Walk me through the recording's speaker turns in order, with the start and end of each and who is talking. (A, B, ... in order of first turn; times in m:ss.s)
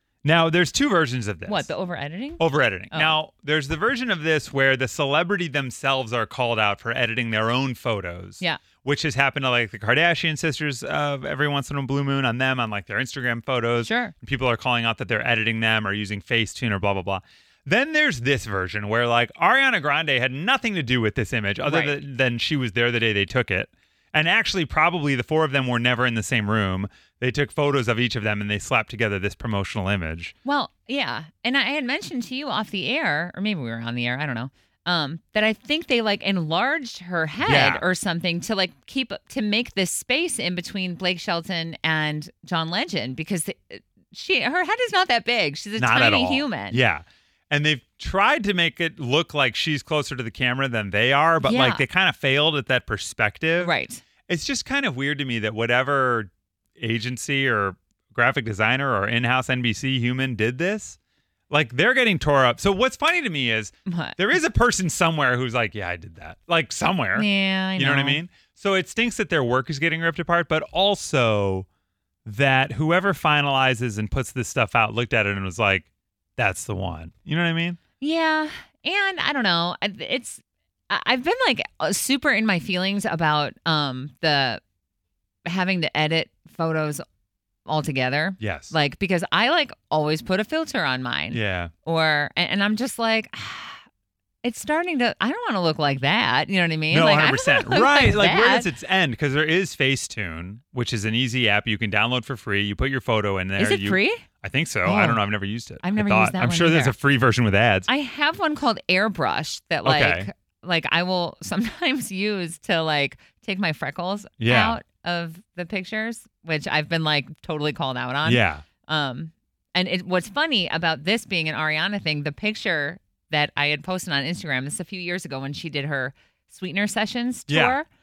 0:00.2-0:01.7 A
0:01.5-0:02.4 B
0:02.4-0:30.3 A
0:13.8-0:14.1 B
0:21.6-0:22.0 B
0:30.4-0:46.8 B
0:37.4-0:37.8 A
0:45.8-0:53.7 A
0:51.4-0:51.8 B
0:53.6-0:54.0 B
0:54.3-1:01.0 A
1:01.5-1:11.7 A
1:03.9-1:04.2 B
1:07.2-1:08.2 B
1:12.3-1:15.9 A
1:16.4-1:17.8 A
1:18.0-1:24.6 B
1:25.5-1:27.0 B
1:27.7-1:33.8 B
1:28.4-1:28.7 A
1:31.3-1:31.7 A
1:34.4-1:38.7 B
1:36.9-1:47.9 A
1:43.6-1:44.2 B
1:44.9-1:45.1 B
1:45.8-1:46.9 B
1:47.9-2:07.9 B
1:49.8-1:50.3 A
1:54.4-1:54.8 A
1:58.2-1:58.6 A
2:07.5-2:07.8 A